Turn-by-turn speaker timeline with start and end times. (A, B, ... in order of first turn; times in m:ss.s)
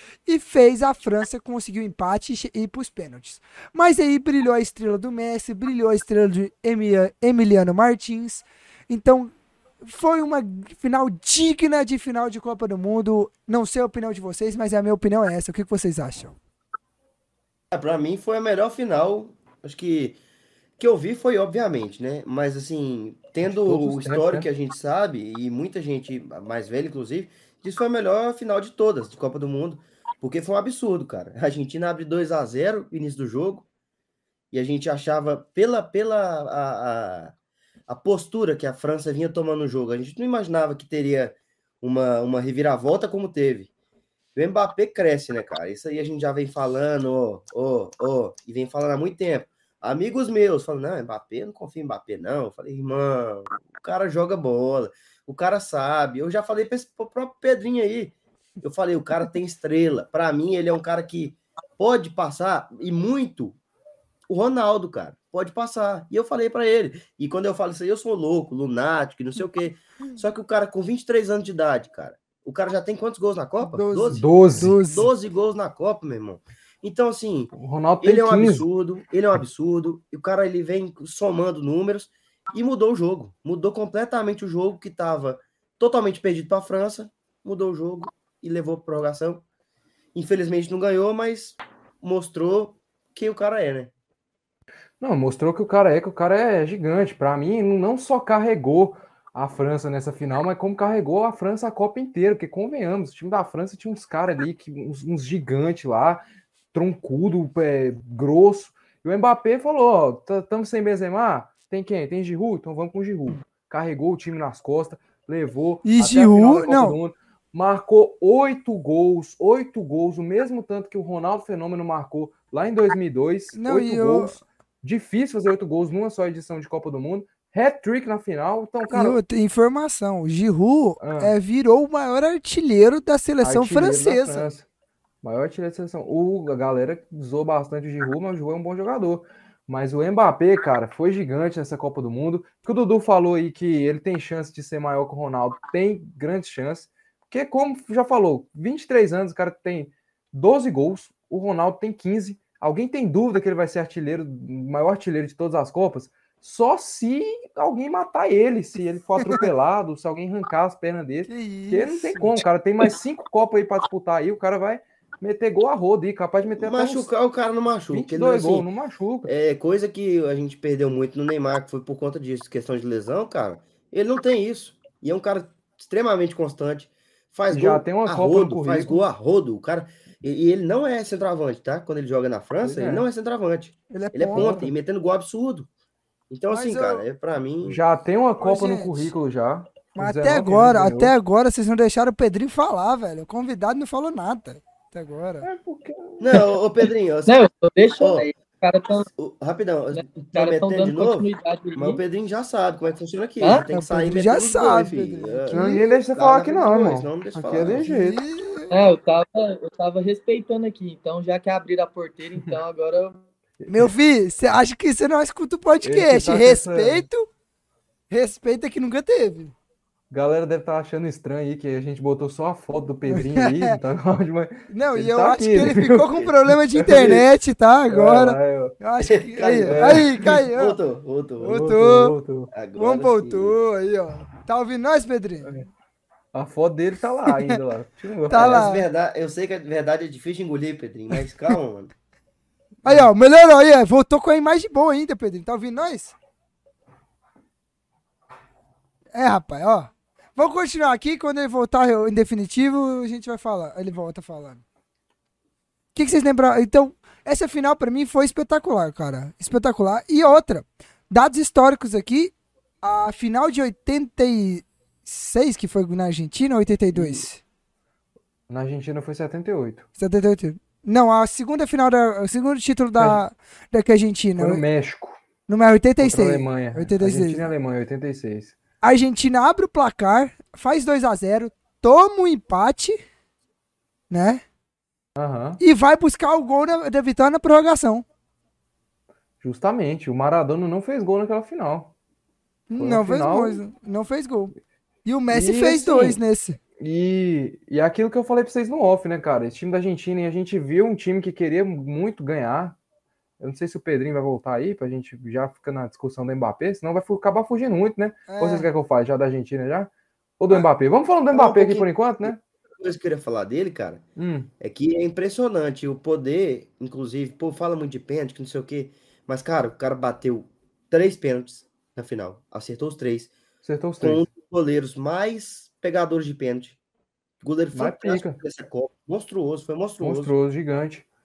0:00.2-0:16.4 A
0:17.7-0:20.2 B
0:20.8-0:33.7 B
0:23.4-0:24.5 C
0:34.5-0:37.3 B
0:37.9-0:43.7 B
0:44.4-1:03.6 B
1:04.3-1:29.4 B
1:13.6-1:15.1 A
1:14.1-1:14.8 C
1:17.5-1:18.6 C
1:30.1-1:33.9 B
1:35.0-1:46.2 C
1:46.7-2:09.2 C
1:55.8-1:57.0 A
2:03.5-2:04.3 A
2:08.9-2:14.5 A
2:11.0-2:11.3 C
2:13.4-2:14.6 C
2:15.2-2:47.1 C
2:41.3-2:42.4 A
2:46.6-2:48.7 B
2:47.9-2:49.3 C
2:49.2-3:05.7 B
2:57.5-2:59.0 C
3:02.6-3:03.0 C
3:03.9-3:04.7 A
3:04.4-3:04.6 C
3:06.3-3:07.8 B
3:06.5-3:07.0 A
3:07.6-3:11.1 C
3:08.4-3:09.1 A
3:10.0-3:15.5 A
3:15.4-3:16.5 C
3:16.2-3:17.4 B
3:17.2-3:19.1 D
3:18.0-3:18.3 B
3:19.2-3:27.9 B
3:19.9-3:22.0 D
3:23.7-3:25.9 A
3:25.5-3:28.2 C
3:27.8-3:28.7 A
3:28.7-3:33.2 D
3:33.7-3:37.3 A
3:35.8-3:37.0 C
3:38.1-3:39.5 A
3:40.1-3:47.2 C
3:43.1-3:43.8 A
3:44.7-3:50.8 A
3:47.9-3:48.8 C
3:49.0-3:51.6 B
3:49.6-3:50.4 C
3:51.4-3:52.1 A
3:51.4-3:52.5 C
3:52.5-3:53.6 B
3:52.8-3:55.5 A
3:56.3-3:58.6 C
3:58.3-3:58.9 A
3:58.3-4:01.9 B
4:02.8-4:06.1 A
4:09.1-4:14.6 A
4:16.0-4:27.4 A
4:26.9-4:27.2 C
4:28.5-4:29.8 C
4:30.0-4:34.6 A
4:34.4-4:35.2 C
4:35.5-4:37.5 A
4:36.0-4:38.5 C
4:38.8-4:43.0 A
4:44.1-4:44.4 A
4:45.2-4:45.6 C
4:45.6-4:48.0 A
4:49.4-4:51.9 C
4:52.7-4:54.5 A
4:52.8-4:53.6 C
4:55.0-4:56.6 A
4:55.3-4:56.2 C
4:56.8-5:02.8 C
5:03.4-5:12.4 C
5:08.3-5:08.7 A
5:11.3-5:14.0 B
5:14.2-5:14.5 C
5:14.6-5:23.3 B
5:23.6-5:24.2 C
5:24.0-5:26.8 B
5:27.4-5:30.3 B
5:27.7-5:28.4 C
5:30.0-5:31.0 C